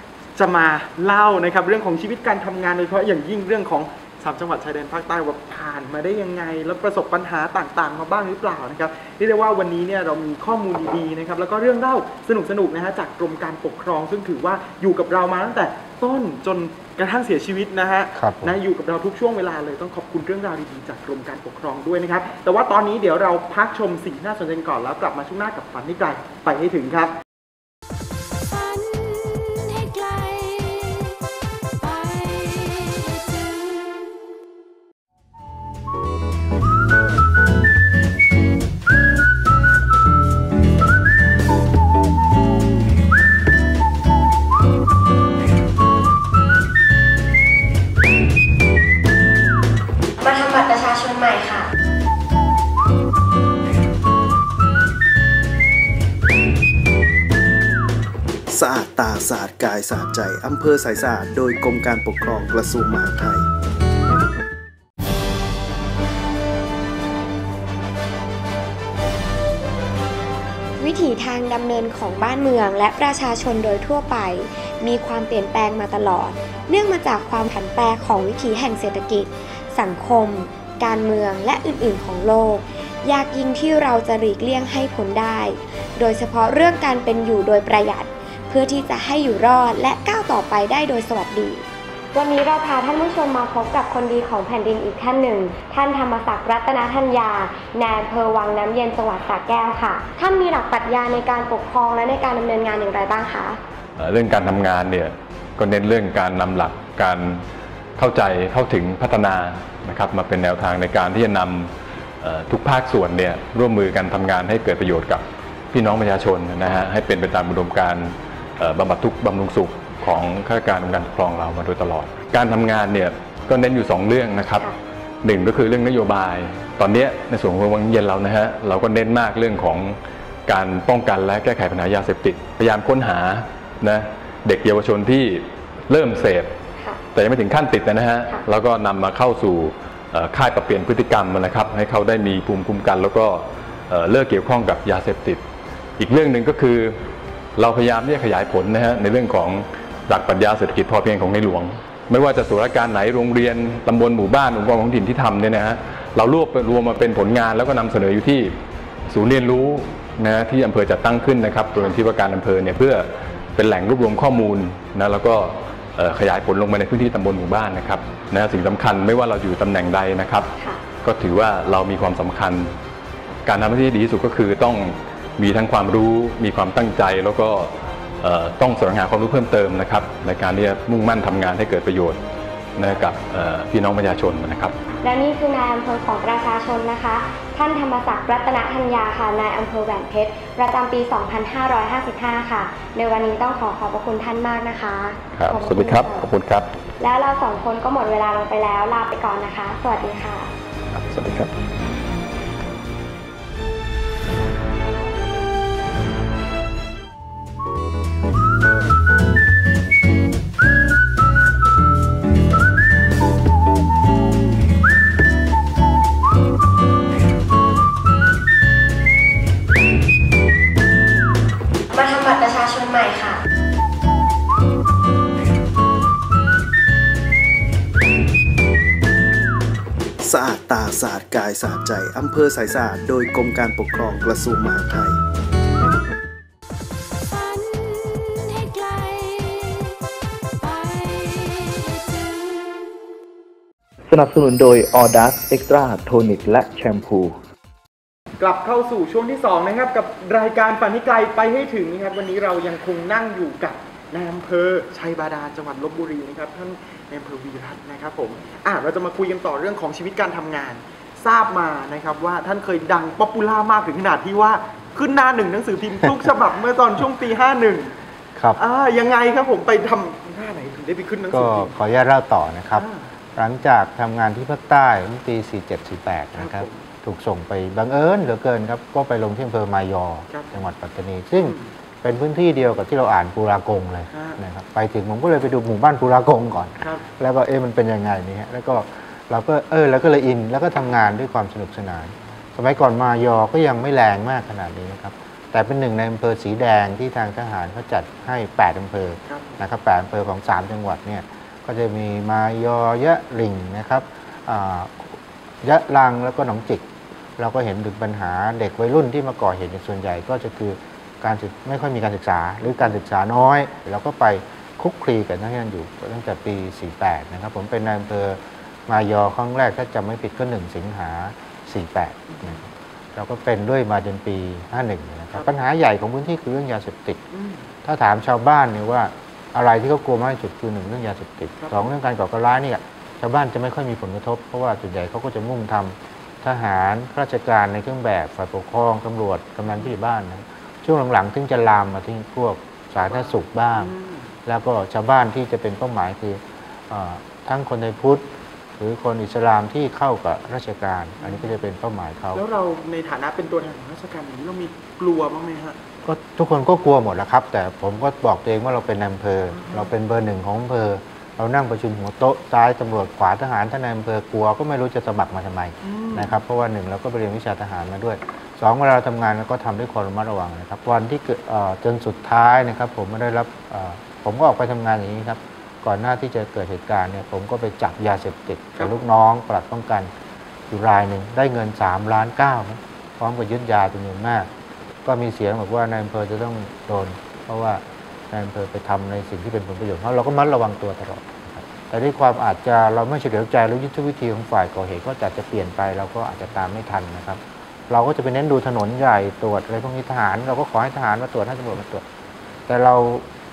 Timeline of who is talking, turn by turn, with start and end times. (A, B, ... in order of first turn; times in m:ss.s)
0:00.4-0:27.1 A
0:18.2-0:18.6 B
0:28.4-0:31.2 C
0:31.8-0:34.0 C
0:50.2-0:51.7 D
0:58.5-1:03.4 E
1:10.8-1:43.6 D
1:44.0-1:47.4 F
1:48.0-2:04.7 F
2:05.2-2:16.5 F
2:17.1-2:25.4 F
2:26.0-2:27.0 F
2:27.6-2:38.6 F
2:39.1-2:50.5 F
2:51.0-2:52.7 F
2:53.5-3:02.2 F
3:02.8-3:04.8 F
3:05.0-3:16.3 D
3:15.4-3:16.7 F
3:17.0-3:20.5 D
3:20.9-3:21.5 F
3:41.9-3:43.4 D
3:50.2-3:55.2 E
3:57.3-4:00.0 C
4:00.6-4:02.8 C
4:04.1-4:07.4 G
4:08.4-4:28.0 A
4:28.6-4:31.7 A
4:31.3-5:27.2 B
4:32.8-4:33.1 A
4:36.4-4:36.9 A
4:41.4-4:41.7 A
4:44.1-4:44.4 A
4:46.8-4:47.1 A
4:59.3-4:59.6 A
5:22.3-5:22.6 A
5:27.3-5:27.7 A
5:27.8-5:43.9 B
5:31.6-5:31.9 A
5:43.0-5:44.3 A
5:44.4-5:48.3 B
5:48.8-5:52.4 B
5:51.2-5:51.6 A
5:52.3-5:55.8 A
5:56.0-6:20.1 B
5:59.5-5:59.9 A
6:05.8-6:06.3 A
6:20.7-6:24.5 B
6:25.0-6:42.0 B
6:42.7-6:43.3 B